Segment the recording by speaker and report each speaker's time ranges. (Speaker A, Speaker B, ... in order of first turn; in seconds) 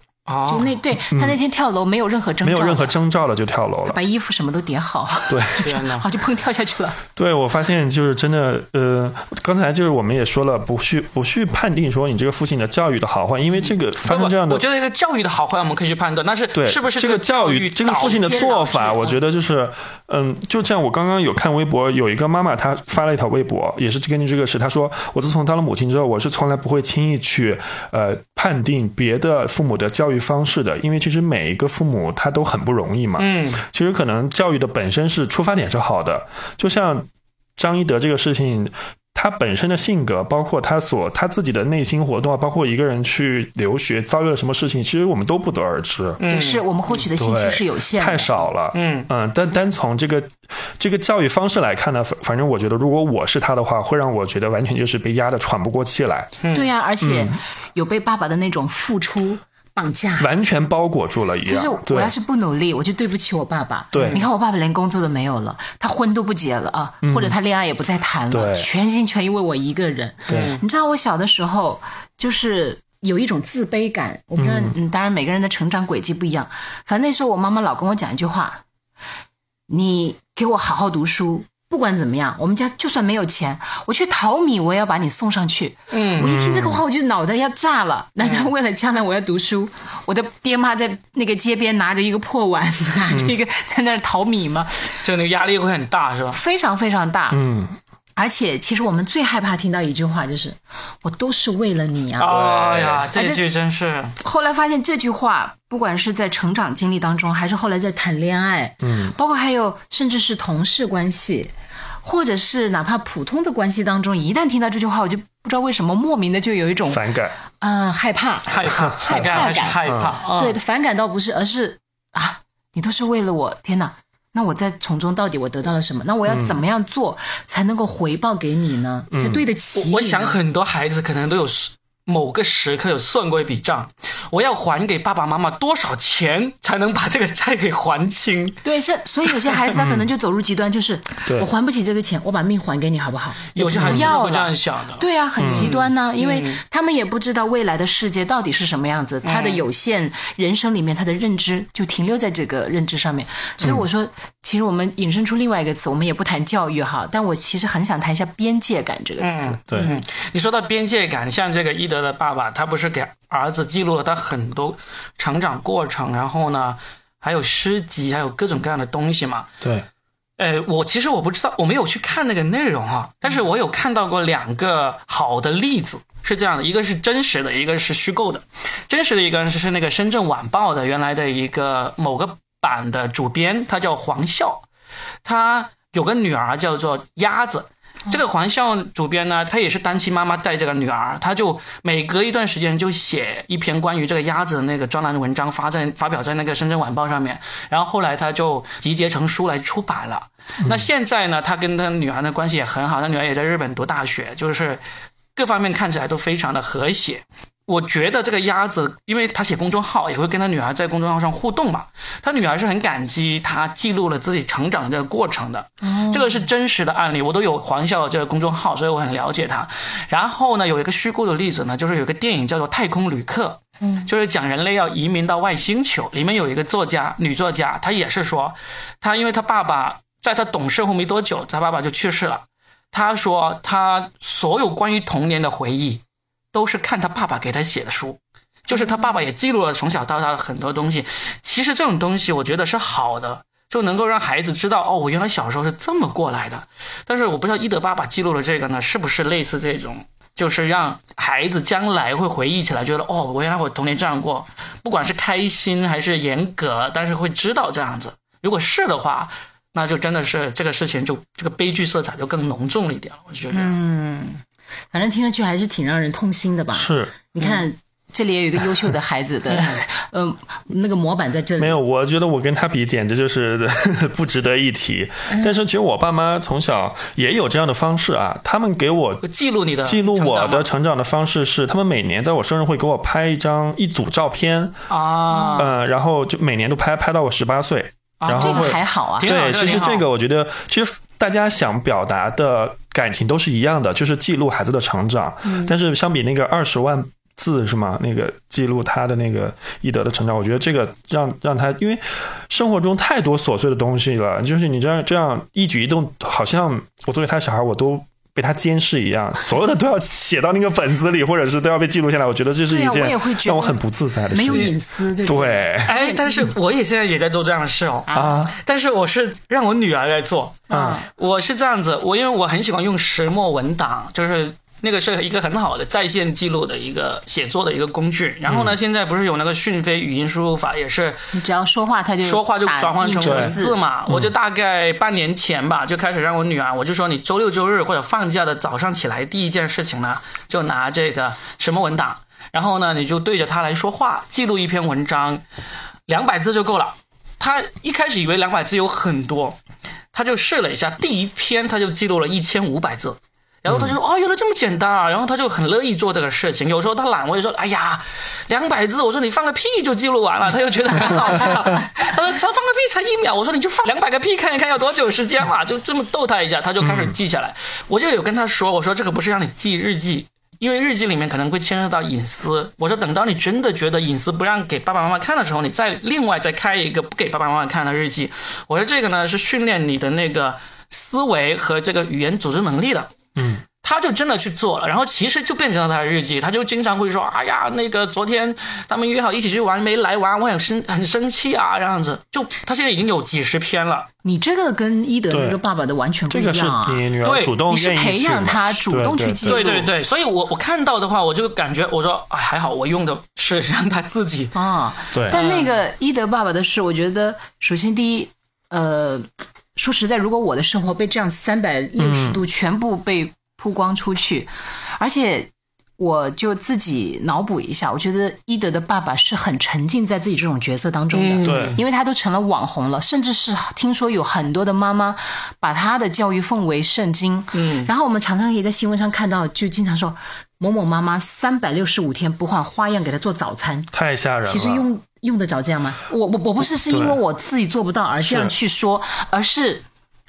Speaker A: 0.3-0.7, 5.6-6.1, 13.6-18.8, 33.2-33.6, 46.2-46.6, 48.7-49.1, 56.4-56.7, 63.9-64.2, 70.3-70.6, 85.9-86.3, 95.0-96.4, 102.2-104.2, 118.5-120.6, 129.7-138.6, 143.5-146.6, 149.2-149.6, 159.2-169.5, 170.4-184.7, 185.2-204.8, 205.3-263.8, 279.2-280.7, 284.9-285.7, 288.2-290.0, 315.8-331.2, 332.2-345.4, 346.1-349.6, 350.1-383.1, 383.8-394.1, 397.2-397.6, 399.4-404.5, 405.3-405.8, 421.1-421.8, 427.5-427.9
Speaker B: 0.5-3.0, 3.9-7.0, 17.9-19.1, 46.3-48.5, 56.5-60.3, 61.4-78.6, 79.7-95.4, 96.3-97.4, 98.2-102.3, 103.1-103.4, 104.2-117.1, 117.6-130.4, 138.6-159.9, 215.9-216.4, 238.7-239.1, 263.5-271.8, 285.3-285.6, 288.4-289.3, 312.7-316.5, 318.1-318.4, 320.7-321.1, 331.3-333.8, 394.2-397.1, 397.6-399.9, 404.5-433.9, 434.4-439.8
Speaker C: 1.1-1.4, 2.4-4.0, 5.3-5.7, 7.2-14.6, 16.5-46.2, 47.2-56.3, 57.0-57.4, 60.2-62.1, 63.9-64.2, 67.0-67.3, 68.3-68.7, 74.4-74.7, 86.2-86.8, 97.3-97.8, 102.3-103.1, 108.8-109.1, 116.9-117.4, 119.0-120.1, 126.3-126.6, 129.1-129.4, 139.7-140.1, 143.8-144.1, 145.4-145.7, 169.6-169.8, 266.7-267.1, 271.6-279.2, 279.8-284.7, 285.6-315.9, 318.1-318.5, 320.7-321.0, 328.5-328.8, 333.2-333.5, 366.8-367.1, 383.4-383.6, 395.3-395.6, 396.3-399.7, 412.0-412.4, 421.4-421.8, 433.9-434.9, 436.9-437.2, 438.2-438.5